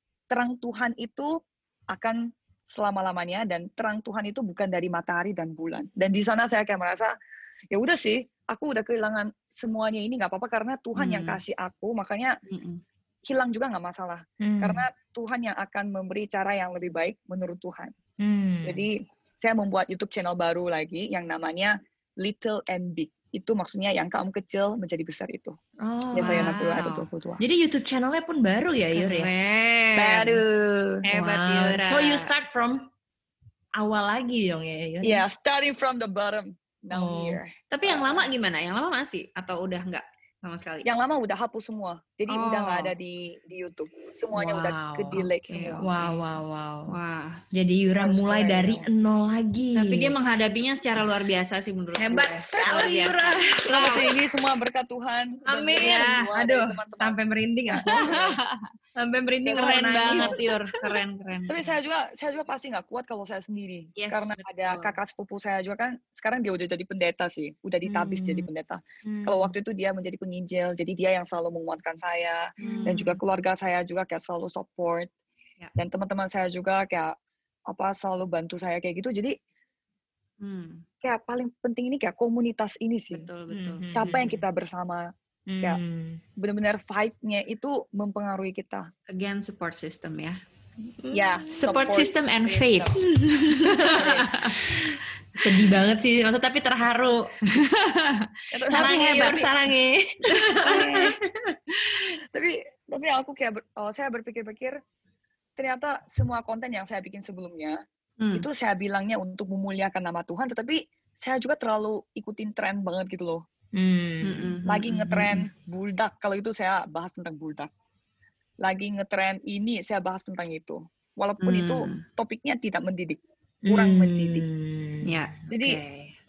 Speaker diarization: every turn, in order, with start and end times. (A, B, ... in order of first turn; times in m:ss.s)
0:00.3-0:01.4 A
0:01.9-0:07.1 A
0:07.7-0:12.4 A
0:11.0-0:11.4 B
0:12.5-0:12.8 B
0:13.3-0:17.9 A
0:14.4-0:14.9 C
0:18.2-0:18.8 C
0:18.6-0:25.6 A
0:25.9-0:26.8 C
0:26.1-0:27.1 B
0:26.2-0:27.4 A
0:27.4-0:29.3 C
0:28.9-0:30.4 B
0:30.0-0:31.0 A
0:31.0-0:32.8 C
0:31.1-0:32.3 B
0:33.8-0:35.2 C
0:35.0-0:38.3 A
0:36.9-0:37.4 C
0:37.7-0:40.9 B
0:40.8-0:45.9 A
0:42.3-0:43.0 B
0:44.3-0:45.2 C
0:45.3-0:46.2 B
0:45.8-0:47.0 C
0:46.9-0:47.4 B
0:47.5-0:50.1 C
0:47.9-0:48.9 A
0:49.7-0:54.1 B
0:52.0-0:54.1 C
0:53.7-0:58.4 A
0:55.5-0:56.3 B
0:55.5-0:58.3 C
0:57.9-0:58.6 B
0:59.0-1:00.9 C
0:59.4-1:00.4 A
0:59.5-1:01.8 B
1:01.5-1:15.1 A
1:04.0-1:05.0 C
1:08.0-1:08.4 B
1:09.0-1:09.5 C
1:12.6-1:13.2 B
1:12.6-1:13.0 C
1:15.8-1:17.2 A
1:17.7-1:19.4 A
1:20.4-1:20.8 B
1:21.0-1:23.3 A
1:23.1-1:24.2 B
1:23.5-1:24.4 C
1:24.0-1:25.1 A
1:25.5-1:26.2 C
1:26.4-1:28.9 A
1:29.1-1:30.4 B
1:31.0-1:31.4 C
1:31.1-1:33.1 A
1:31.5-1:34.6 B
1:33.0-1:37.3 C
1:33.8-1:34.3 A
1:35.4-1:35.8 B
1:37.5-1:39.1 B
1:38.5-1:39.5 A
1:38.7-1:41.6 C
1:40.6-1:41.2 A
1:41.8-1:44.8 A
1:45.6-1:47.8 A
1:48.2-1:48.5 B
1:48.3-1:53.4 A
1:53.7-1:54.6 C
1:54.2-1:55.5 B
1:54.7-1:57.7 A
1:58.6-2:04.4 A
2:01.4-2:02.0 B
2:03.7-2:06.1 C
2:05.0-2:05.4 B
2:05.5-2:05.8 A